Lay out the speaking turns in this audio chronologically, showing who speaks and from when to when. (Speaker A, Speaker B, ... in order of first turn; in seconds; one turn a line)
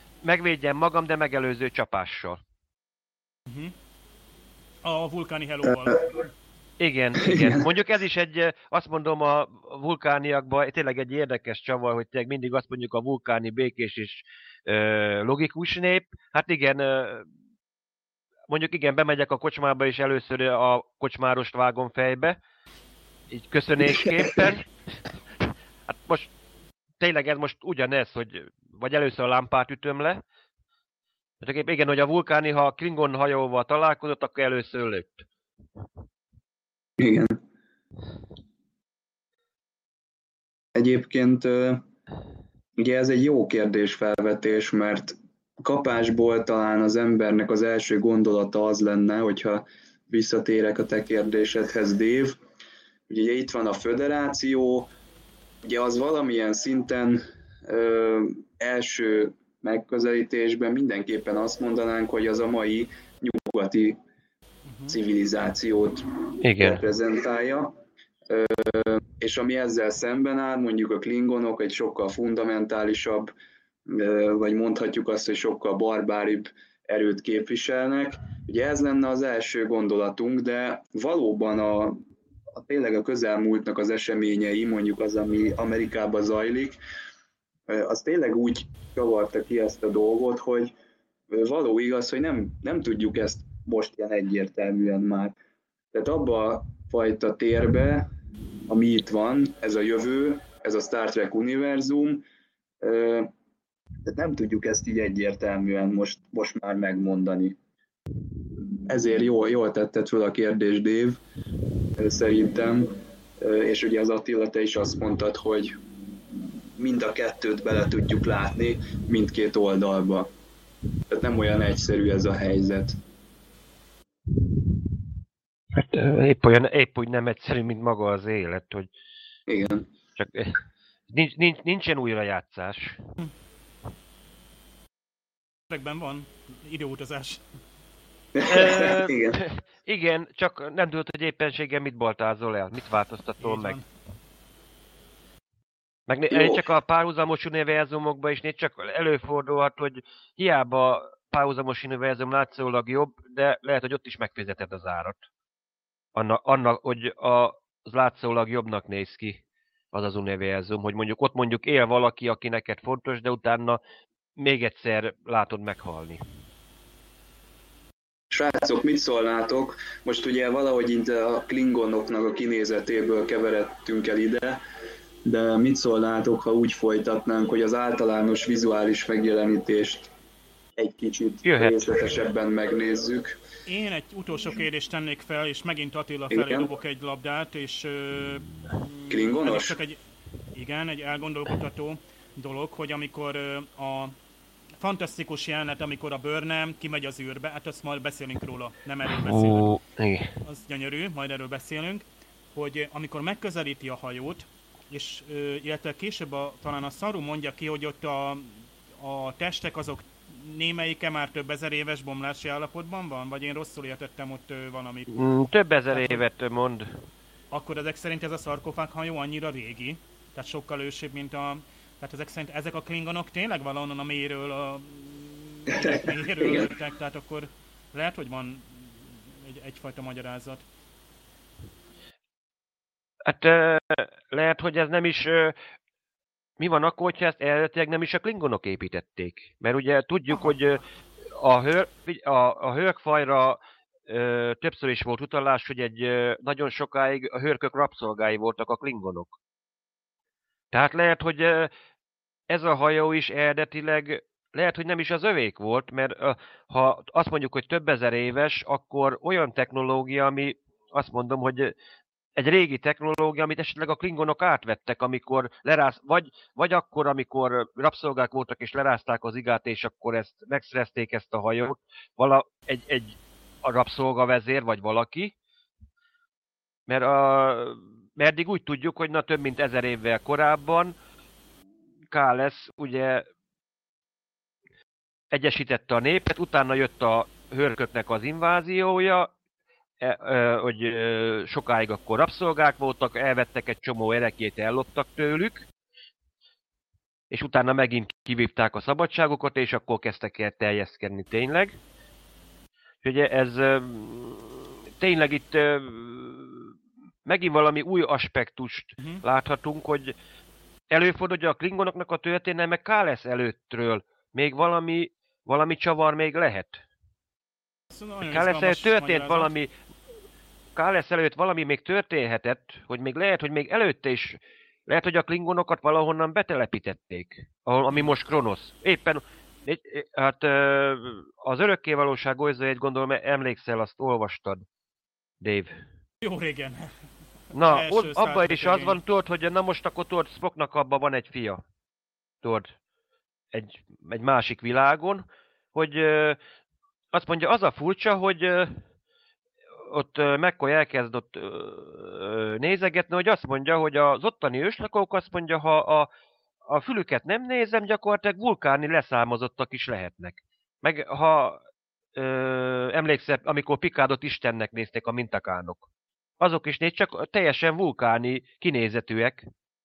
Speaker A: 0.2-2.4
Speaker B: 3.5-3.7
Speaker B: 4.8-6.0
Speaker C: 5.7-6.0
Speaker A: 6.8-17.2
Speaker C: 7.2-7.7
Speaker A: 18.5-22.4
Speaker A: 23.3-24.7
Speaker A: 25.4-26.3
Speaker A: 27.0-30.2
Speaker A: 31.4-35.3
Speaker C: 37.0-37.4
Speaker C: 40.7-41.8
Speaker C: 42.8-52.4
Speaker C: 53.1-54.9
Speaker C: 55.6-64.0
Speaker B: 64.7-64.9
Speaker C: 64.9-67.8
Speaker A: 66.4-66.8
Speaker C: 68.3-73.3
Speaker C: 73.9-82.0
Speaker C: 82.6-86.8
Speaker C: 87.7-90.7
Speaker C: 91.3-95.3
Speaker C: 95.9-98.1
Speaker C: 98.7-102.2
Speaker C: 102.8-103.3
Speaker C: 104.1-107.5
Speaker C: 108.9-111.2
Speaker C: 112.0-115.8
Speaker C: 116.8-120.3
Speaker C: 121.1-123.0
Speaker A: 125.7-128.9
Speaker C: 129.5-129.9
Speaker A: 130.2-133.0
Speaker B: 135.7-137.4
Speaker C: 138.3-139.4
Speaker A: 138.4-143.8
Speaker B: 143.4-143.8
Speaker A: 146.1-155.2
Speaker C: 146.3-146.6
Speaker A: 156.1-163.8
Speaker A: 164.3-166.2
Speaker C: 168.3-174.6
Speaker C: 175.2-180.1
Speaker C: 180.8-183.4
Speaker A: 181.4-182.0
Speaker B: 183.7-190.0
Speaker C: 186.3-186.7
Speaker C: 189.1-189.8
Speaker B: 190.5-194.1
Speaker B: 194.8-199.7
Speaker A: 199.1-200.3
Speaker B: 200.4-202.0
Speaker B: 202.5-215.1
Speaker A: 215.1-216.9
Speaker B: 215.9-216.2
Speaker B: 217.5-230.6
Speaker C: 225.7-226.7
Speaker A: 233.2-235.6
Speaker A: 236.6-240.8
Speaker A: 241.3-249.3
Speaker A: 250.7-251.7
Speaker A: 252.5-261.7
Speaker A: 262.4-275.3
Speaker A: 276.9-280.9
Speaker A: 282.1-283.3
Speaker A: 285.3-289.3
Speaker A: 290.0-295.7
Speaker A: 297.3-301.7
Speaker A: 303.0-306.7
Speaker A: 307.2-310.1
Speaker A: 310.9-316.8
Speaker B: 317.9-319.5
Speaker A: 318.2-319.7
Speaker A: 320.8-334.6
Speaker A: 335.4-335.7
Speaker B: 336.2-336.9
Speaker A: 337.5-341.6
Speaker B: 337.6-339.0
Speaker A: 342.4-342.7
Speaker A: 343.5-346.4
Speaker A: 347.1-348.8
Speaker A: 349.9-356.1
Speaker A: 356.7-361.6
Speaker A: 362.1-365.9
Speaker A: 366.4-369.4